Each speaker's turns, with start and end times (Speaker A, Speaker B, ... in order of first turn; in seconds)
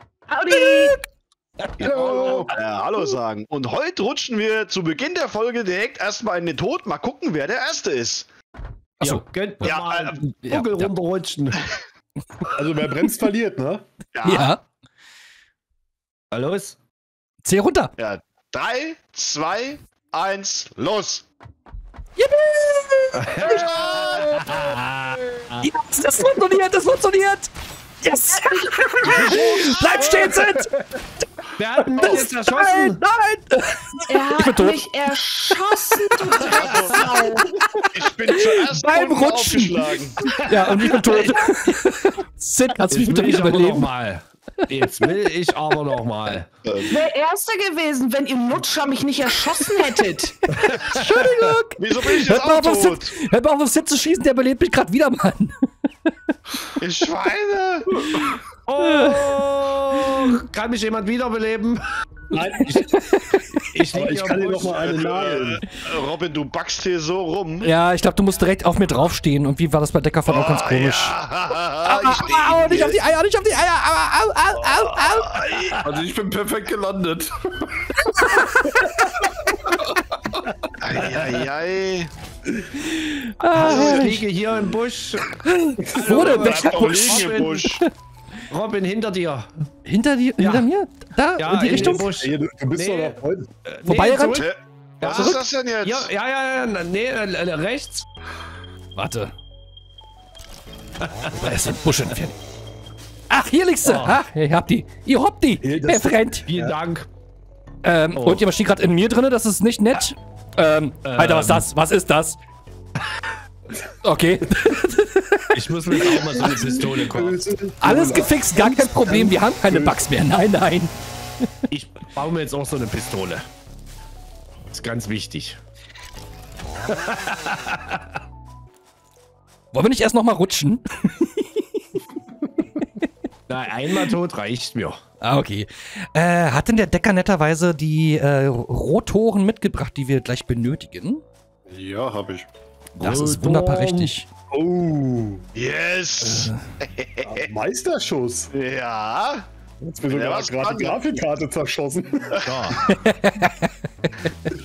Speaker A: 0.3-1.0, 28.5-29.8, 34.1-37.6, 46.9-50.5
Speaker B: 0.5-1.0, 9.0-9.7, 10.5-10.9, 14.2-14.6, 17.4-17.9, 22.2-24.1, 25.6-27.5, 28.0-31.0, 31.9-36.5, 38.3-39.9, 40.4-43.9, 50.5-55.5, 58.1-59.4, 67.6-71.2, 71.8-75.7, 78.1-78.9, 82.8-84.2, 85.4-87.9, 89.8-92.1, 93.8-94.5, 95.1-95.4, 99.0-99.3, 101.3-102.4, 103.3-106.5, 107.8-112.4, 114.0-116.5, 117.8-120.9, 129.7-131.4, 135.2-141.2, 143.0-144.3, 146.2-146.6, 152.8-153.7
Speaker C: 1.8-8.3, 9.6-10.2, 14.2-14.5, 18.0-21.3, 23.3-24.8, 36.4-37.1, 37.9-40.2, 46.6-47.0, 51.8-53.1, 56.8-58.0, 64.8-67.7, 70.3-73.0, 74.7-75.9, 80.8-82.1, 83.6-84.1, 86.0-87.8, 94.3-96.1, 145.6-147.4, 148.5-149.5, 150.1-151.1, 152.5-152.8
Speaker D: 1.9-2.5, 12.5-13.8, 62.3-65.6, 91.6-93.5, 105.6-106.7, 116.1-120.0, 144.5-145.5, 147.2-148.5, 149.8-152.4
Speaker E: 1.9-2.5, 9.0-11.6, 16.3-16.8, 23.2-25.6, 31.6-33.0, 42.9-46.5, 58.7-61.9, 62.7-63.0, 63.7-65.0, 83.5-87.7, 88.5-89.5, 90.4-90.7, 91.4-94.5, 95.0-98.1, 103.8-104.2, 106.5-107.1, 108.2-108.5, 111.0-111.7, 115.5-117.4, 121.7-123.5, 124.7-125.6, 126.9-128.0, 133.5-135.0, 143.0-144.1, 152.4-152.8
Speaker F: 75.8-77.7, 141.7-142.5